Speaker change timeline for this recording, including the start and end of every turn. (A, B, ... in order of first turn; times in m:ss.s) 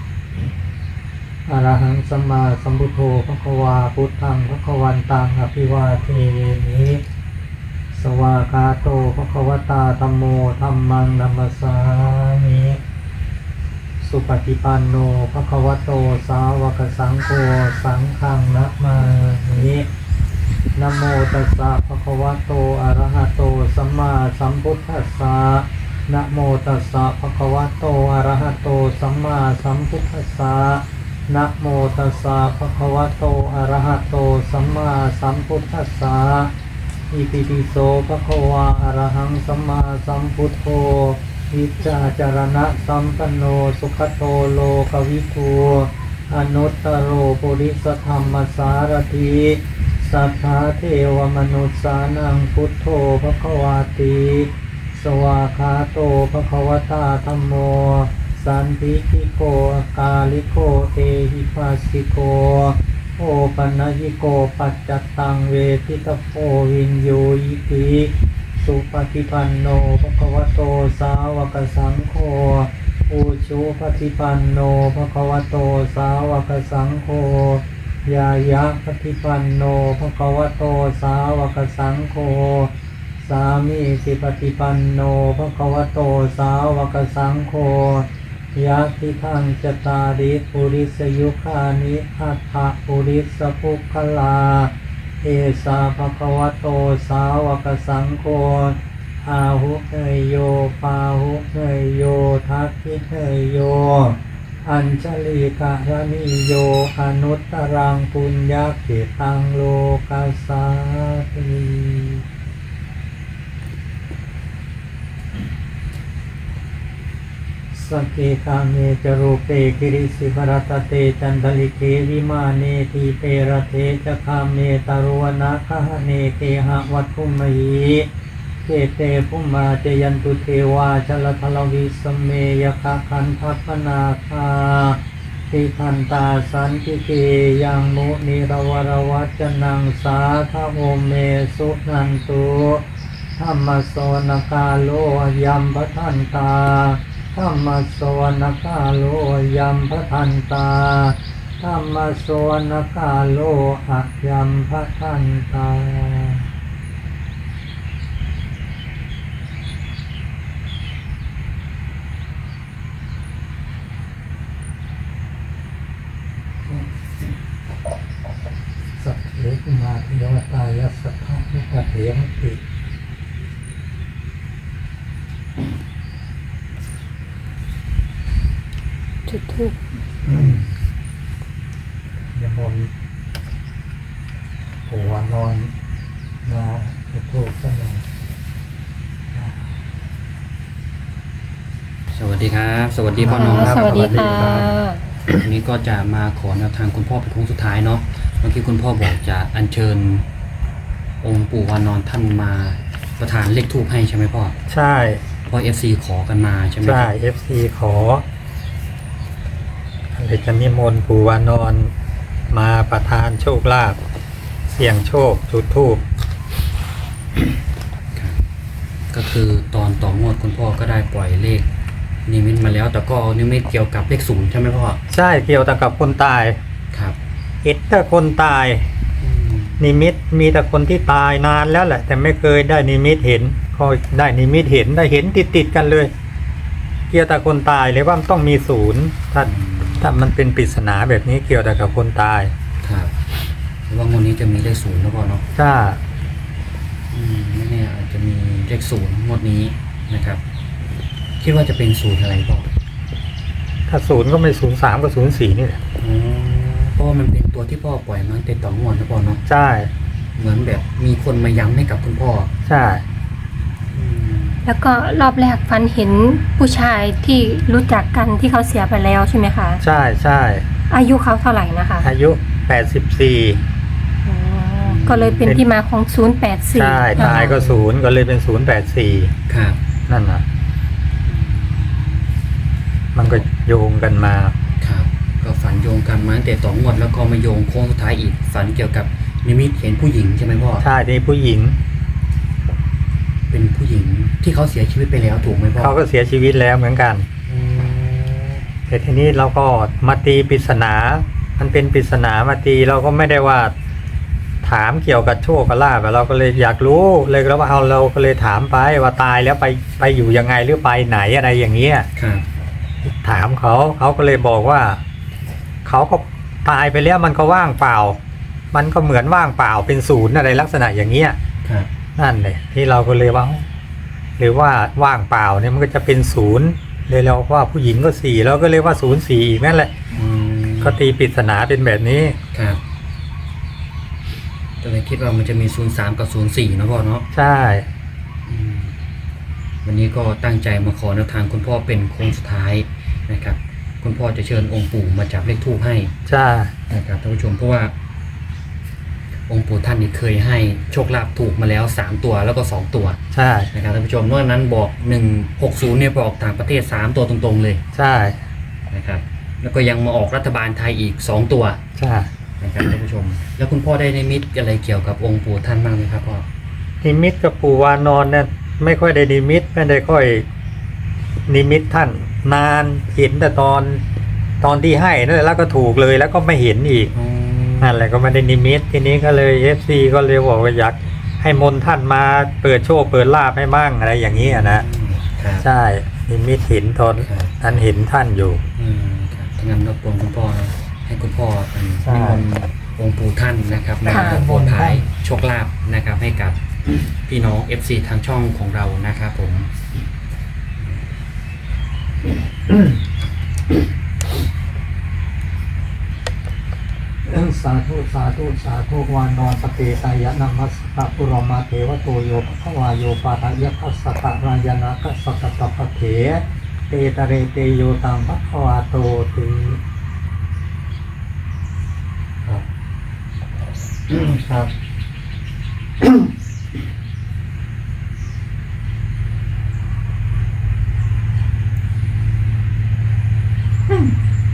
0:01.5-0:07.0 A
0:07.9-0:12.8 A
0:14.0-0:19.9 A
0:20.8-0:36.5 A
0:37.1-1:22.7 A
1:23.2-1:52.2 A
1:57.7-2:08.1 A
2:08.7-2:15.0 A
2:15.5-2:22.8 A
2:23.4-2:36.4 A
2:49.0-2:52.6 A
2:59.3-2:59.8 B
3:00.2-3:00.7 A
3:00.4-3:00.7 C
3:02.4-3:02.9 A
3:04.9-3:05.7 A
3:06.4-3:08.0 A
3:09.3-3:09.6 A
3:12.1-3:14.8 C
3:13.2-3:14.7 A
3:13.3-3:15.0 B
3:15.4-3:20.3 C
3:21.2-3:24.6 C
3:24.7-3:25.2 A
3:25.5-3:27.1 C
3:26.8-3:28.2 A
3:30.1-3:31.9 A
3:32.5-3:34.0 A
3:34.7-3:36.0 A
3:38.1-3:38.4 C
3:39.1-3:41.7 C
3:42.3-3:45.0 C
3:45.1-3:46.6 A
3:46.9-3:47.2 C
3:47.6-3:48.9 A
3:49.2-3:49.9 C
3:49.8-3:56.1 A
3:57.1-4:02.5 A
3:59.4-4:00.1 C
4:02.8-4:03.1 C
4:03.9-4:05.4 C
4:05.6-4:06.0 A
4:07.1-4:10.4 C
4:11.4-4:12.7 C
4:13.9-4:15.8 A
4:16.0-4:19.4 C
4:19.5-4:19.9 A
4:20.4-4:22.5 C
4:22.7-4:23.0 A
4:23.9-4:24.6 C
4:24.6-4:29.8 B
4:29.8-4:30.7 A
4:30.9-4:32.1 B
4:32.0-4:33.6 A
4:34.2-4:37.6 B
4:34.8-4:35.5 C
4:36.7-4:39.3 A
4:37.1-4:37.8 C
4:39.5-4:39.8 C
4:40.1-4:40.4 A
4:41.2-4:42.3 C
4:43.2-4:44.6 A
4:44.8-4:50.9 C
4:50.8-4:51.8 A
4:53.5-4:56.0 C
4:55.8-4:57.3 A
4:57.5-4:58.7 C
4:58.9-5:03.7 A
5:04.6-5:12.1 A
5:12.2-5:12.4 C
5:13.2-5:15.0 A
5:15.8-5:18.2 A
5:18.7-5:21.4 A
5:21.6-5:21.9 C
5:22.2-5:23.7 A
5:24.4-5:29.9 A
5:30.1-5:31.0 C
5:30.8-5:32.4 A
5:32.5-5:32.8 C
5:34.8-5:37.3 C
5:37.3-5:37.9 A
5:38.5-5:39.0 C
5:39.8-5:46.1 C
5:46.3-5:46.7 A
5:46.9-5:47.9 C
5:49.5-5:53.2 C
5:53.3-5:53.7 A
5:53.7-5:57.8 C
5:57.9-5:58.4 A
5:58.9-6:01.8 C
6:02.0-6:02.3 A
6:02.6-6:06.5 C
6:07.0-6:10.4 A
6:11.5-6:14.0 A
6:14.6-6:17.1 A
6:17.1-6:18.0 C
6:17.8-6:24.9 A
6:24.3-6:25.7 C
6:25.6-6:28.6 A
6:27.2-6:27.8 C
6:28.8-6:36.6 C
6:32.0-6:32.4 A
6:34.1-6:34.4 B
6:34.1-6:35.1 A
6:37.3-6:39.7 C
6:42.7-6:43.0 A
6:47.2-6:59.8 A
7:04.1-7:04.7 A